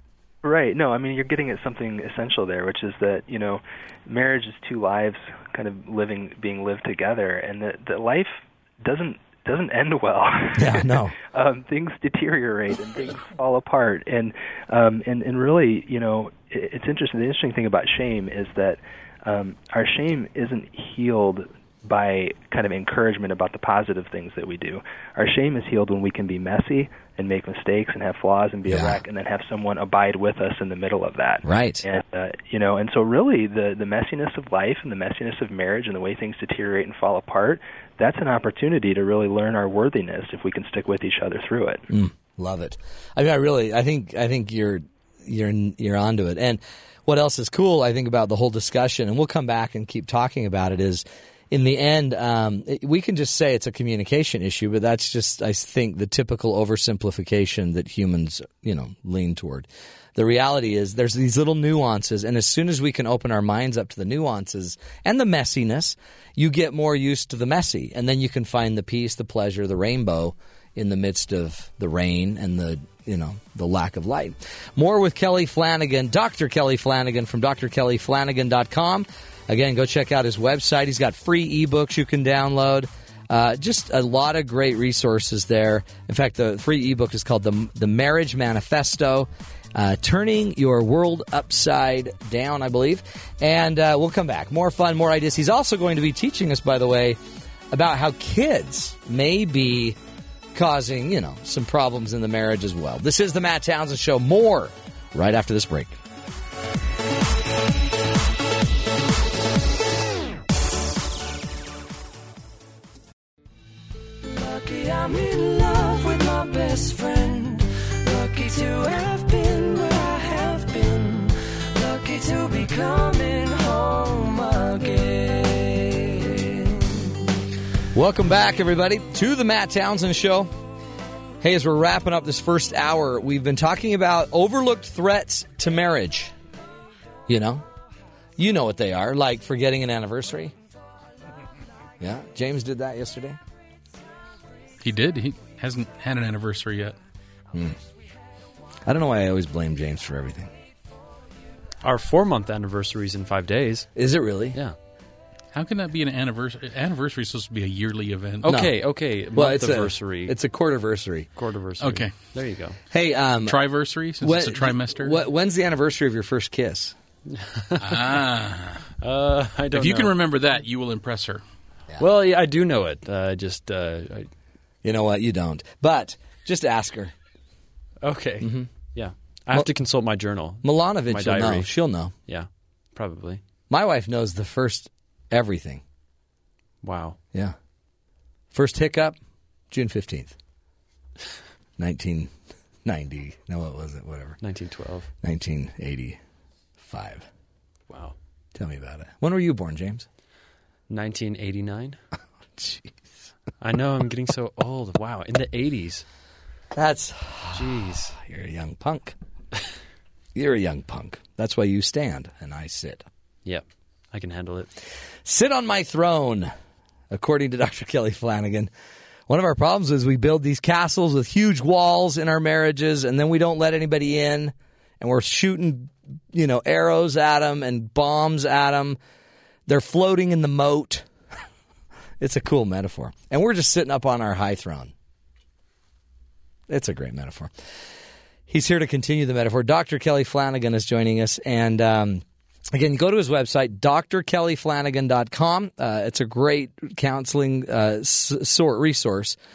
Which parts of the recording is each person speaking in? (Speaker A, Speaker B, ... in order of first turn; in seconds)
Speaker A: 0.4-41.9
Speaker B: 10.6-11.2, 28.7-29.0, 31.4-31.9, 41.9-97.2, 97.7-100.0, 100.5-106.0, 127.9-130.5, 131.4-136.3, 137.3-137.7, 138.4-140.5, 142.0-143.4, 147.5-147.8, 148.9-150.5, 153.9-154.6, 158.5-158.8, 159.3-161.3, 162.9-163.6, 164.2-166.9, 174.8-177.1, 178.4-178.7, 180.6-182.1, 183.7-185.8, 188.5-189.2, 189.7-190.3, 191.8-192.3, 192.8-194.4, 195.2-196.2, 196.8-197.3, 198.6-200.1, 202.6-202.9, 206.7-209.2, 210.3-213.1, 215.2-216.5, 217.1-218.7, 219.3-229.0, 229.7-231.1, 232.2-234.9, 236.7-237.5, 238.5-249.4
Speaker C: 114.2-127.1
Speaker D: 144.8-147.0, 155.5-158.5, 161.8-162.2, 163.4-165.2, 167.8-168.9, 169.7-171.4
Speaker E: 151.8-153.9, 158.4-160.3, 161.4-162.8, 167.3-168.0, 169.0-170.2, 172.0-174.3, 178.0-181.7, 182.2-183.4, 186.8-187.2, 194.4-195.1, 197.9-198.2, 200.9-202.0, 203.6-206.1, 207.5-208.2, 213.4-214.7